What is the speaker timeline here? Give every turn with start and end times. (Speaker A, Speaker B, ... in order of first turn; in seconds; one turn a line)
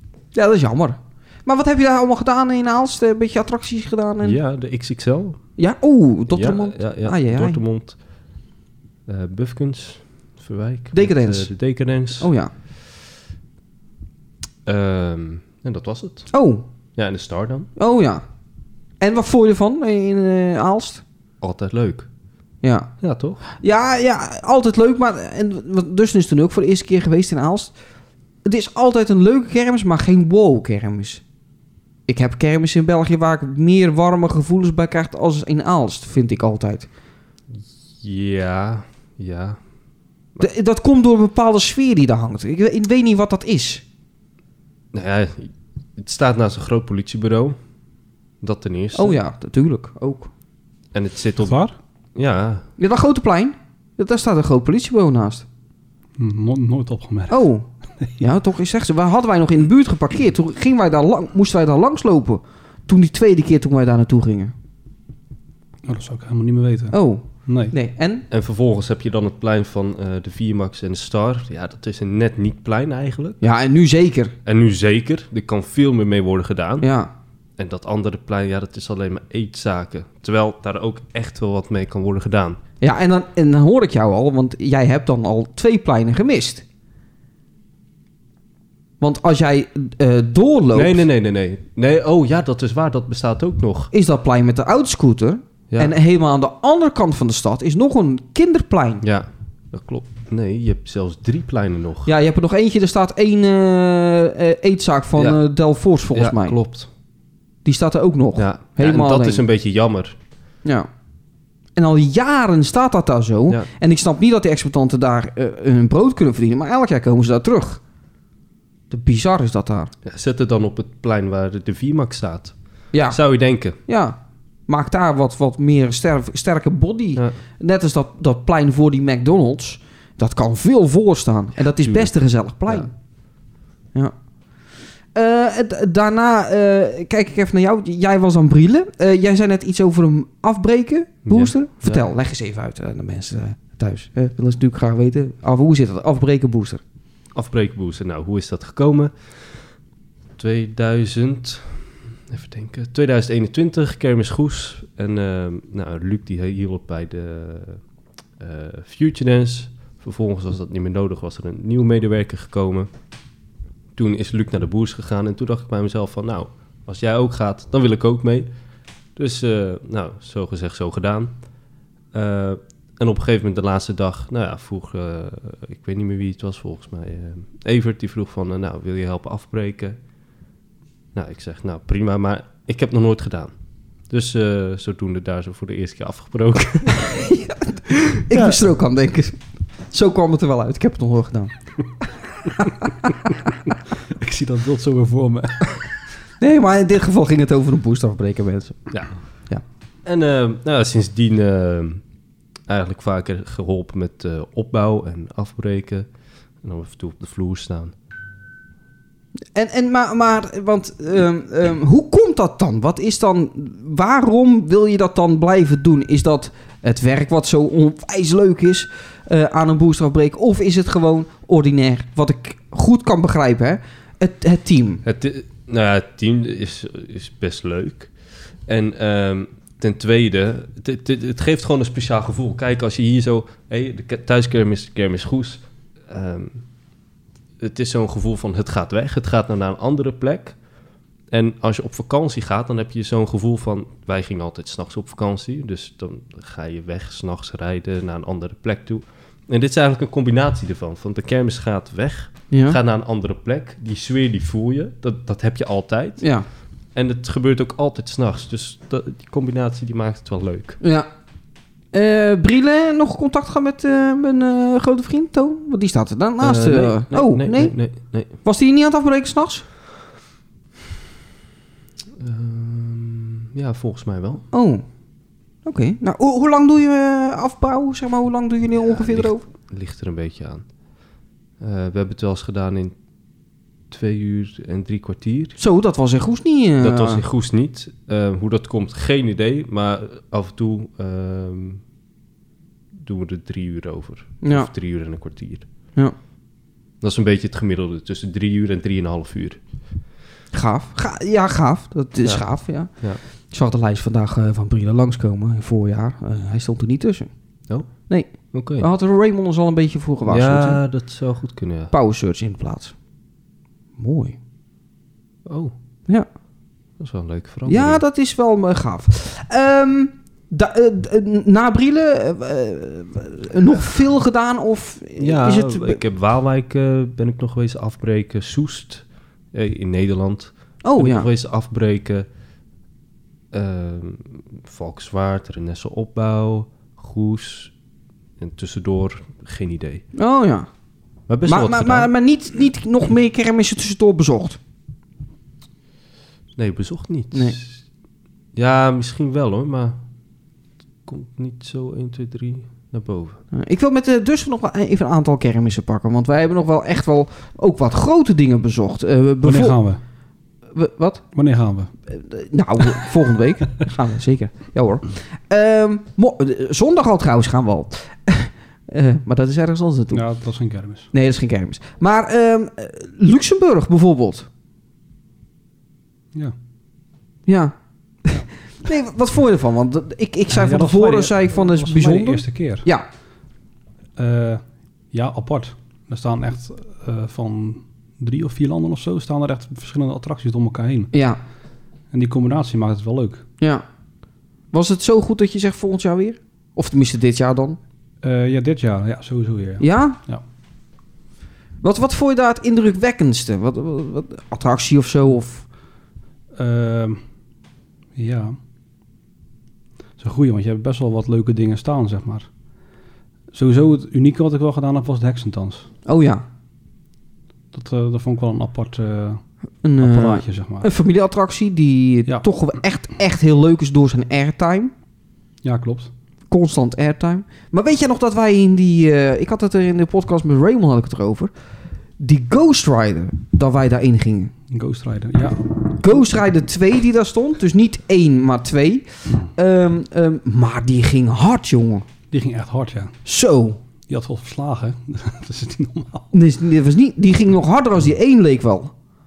Speaker A: 0.3-4.4
Speaker B: 4.2-5.5
Speaker A: 5.6-7.6
Speaker B: 6.3-8.0
Speaker B: 9.1-12.3
Speaker A: 10.9-11.5
Speaker A: 12.2-12.5
Speaker B: 14.7-16.3
Speaker A: 16.3-16.6
Speaker B: 17.0-17.7
Speaker A: 17.8-18.2
Speaker A: 19.0-21.0
Speaker B: 21.4-22.1
Speaker A: 22.6-22.9
Speaker B: 23.0-23.4
Speaker A: 23.5-27.7
Speaker A: 28.4-31.2
Speaker A: 32.1-36.9
Speaker B: 38.0-39.6
Speaker A: 40.4-43.8
Speaker B: 44.9-47.6
Speaker B: 48.4-49.2
Speaker A: 49.0-50.3
Speaker B: 50.9-51.6
Speaker C: 51.4-51.8
Speaker B: 52.2-52.7
Speaker A: 52.8-55.5
Speaker C: 56.2-57.5
Speaker A: 57.3-57.7
Speaker A: 58.2-64.5
Speaker C: 65.8-67.7
Speaker A: 66.9-68.2
Speaker B: 68.3-73.4
Speaker A: 73.4-74.3
Speaker B: 74.5-76.9
Speaker A: 76.8-77.1
Speaker B: 77.6-82.6
Speaker A: 82.8-86.6
Speaker A: 89.0-91.0
Speaker B: 90.7-93.9
Speaker A: 93.9-99.0
Speaker B: 99.0-102.1
Speaker A: 102.0-106.6
Speaker B: 106.1-106.9
Speaker A: 107.7-109.4
Speaker B: 108.4-110.2
Speaker A: 111.8-117.8
Speaker A: 118.9-119.9
Speaker B: 120.0-123.8
Speaker A: 122.9-132.9
Speaker B: 131.8-132.1
Speaker A: 135.1-146.8
Speaker B: 141.3-142.0
Speaker B: 147.3-149.7
Speaker B: 150.4-157.8
Speaker B: 158.4-162.9
Speaker B: 163.9-168.5
Speaker B: 169.2-171.4
Speaker B: 172.1-180.0
Speaker B: 181.1-183.5
Speaker B: 184.1-187.2
Speaker A: 187.2-189.4
Speaker A: 189.9-191.5
Speaker A: 192.6-192.9
Speaker C: 194.1-195.8
Speaker A: 196.4-198.9
Speaker B: 200.1-202.0
Speaker B: 202.7-206.1
Speaker B: 206.6-207.9
Speaker A: 209.5-225.0
Speaker B: 225.1-228.1
Speaker B: 228.7-236.6
Speaker B: 237.6-240.6
Speaker B: 241.3-256.3
Speaker A: 252.5-252.8
Speaker A: 256.2-256.5
Speaker B: 256.9-260.8
Speaker A: 260.8-261.1
Speaker A: 261.9-267.8
Speaker B: 266.4-268.4
Speaker A: 268.4-269.6
Speaker B: 272.2-274.4
Speaker A: 274.5-274.9
Speaker A: 275.6-279.4
Speaker B: 278.9-280.7
Speaker B: 281.6-282.9
Speaker B: 283.9-285.6
Speaker A: 285.6-287.2
Speaker B: 286.8-291.8
Speaker B: 293.0-295.7
Speaker A: 294.4-294.7
Speaker B: 297.0-299.6
Speaker A: 300.5-302.9
Speaker A: 303.5-307.3
Speaker B: 307.7-307.9
Speaker A: 307.9-310.8
Speaker B: 308.5-308.9
Speaker B: 310.3-311.9
Speaker A: 311.9-312.9
Speaker A: 314.0-314.4
Speaker B: 315.5-315.7
Speaker B: 317.0-318.0
Speaker A: 317.7-326.0
Speaker B: 325.2-332.3
Speaker A: 330.8-331.3
Speaker B: 333.5-337.7
Speaker B: 338.4-340.0
Speaker A: 340.2-340.7
Speaker B: 341.3-342.1
Speaker A: 341.5-344.6
Speaker B: 346.6-347.8
Speaker A: 347.3-347.6
Speaker B: 348.6-350.0
Speaker B: 351.1-353.4
Speaker A: 353.5-359.8
Speaker C: 359.4-360.0
Speaker A: 360.7-361.2
Speaker C: 361.4-361.9
Speaker A: 362.1-370.2
Speaker C: 370.1-371.1
Speaker A: 371.1-374.5
Speaker A: 377.5-377.7
Speaker A: 378.3-383.1
Speaker C: 380.5-382.9
Speaker C: 384.2-391.1
Speaker A: 391.1-391.4
Speaker C: 392.1-393.4
Speaker A: 394.7-397.8
Speaker C: 398.2-400.4
Speaker A: 399.8-400.2
Speaker A: 401.8-405.6
Speaker C: 406.5-407.2
Speaker C: 408.1-408.6
Speaker C: 410.2-412.5
Speaker C: 413.5-415.9
Speaker A: 416.1-416.4
Speaker C: 417.7-419.4
Speaker A: 419.8-424.9
Speaker C: 420.0-420.9
Speaker C: 425.6-426.1
Speaker A: 426.5-431.5
Speaker A: 432.2-434.5
Speaker C: 434.7-436.4
Speaker A: 436.0-442.1
Speaker C: 442.3-443.1
Speaker A: 443.3-443.8
Speaker C: 444.1-446.3
Speaker A: 446.3-448.9